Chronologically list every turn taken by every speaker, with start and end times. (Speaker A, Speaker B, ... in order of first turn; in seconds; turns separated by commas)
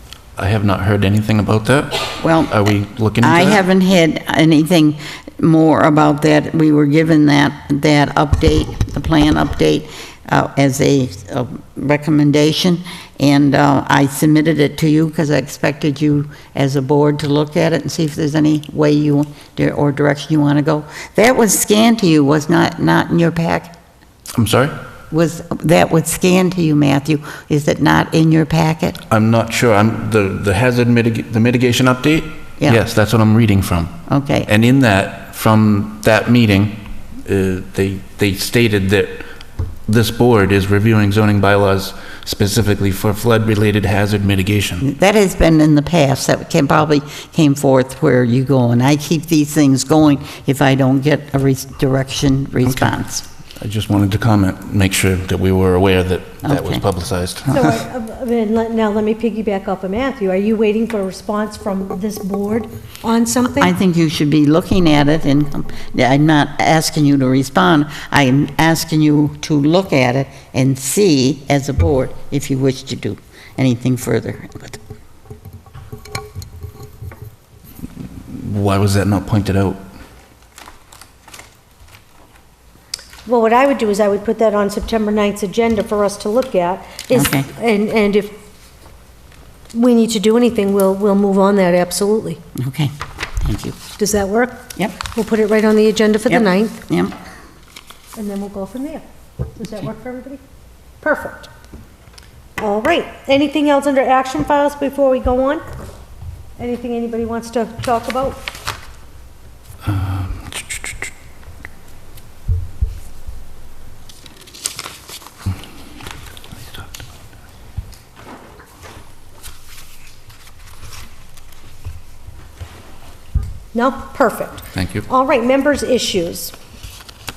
Speaker A: 0.3-3.6, Speaker B: 2.2-2.5, Speaker B: 3.2-23.7, Speaker A: 24.3-24.8, Speaker B: 25.1-29.0, Speaker A: 29.1-39.3, Speaker B: 34.1-34.5, Speaker A: 39.9-44.8, Speaker B: 44.8-53.2, Speaker A: 52.6-53.0, Speaker A: 53.6-57.6, Speaker B: 56.4-56.8, Speaker C: 57.5-63.7, Speaker B: 63.6-74.8, Speaker A: 78.2-79.8, Speaker C: 83.2-88.4, Speaker B: 87.1-87.5, Speaker C: 89.7-92.4, Speaker B: 92.6-93.8, Speaker C: 93.9-96.8, Speaker B: 96.2-97.1, Speaker C: 98.2-99.0, Speaker C: 99.5-100.4, Speaker C: 101.0-101.5, Speaker C: 102.6-105.6, Speaker C: 106.6-108.5, Speaker A: 109.8-110.9, Speaker C: 123.7-126.5, Speaker A: 124.7-125.1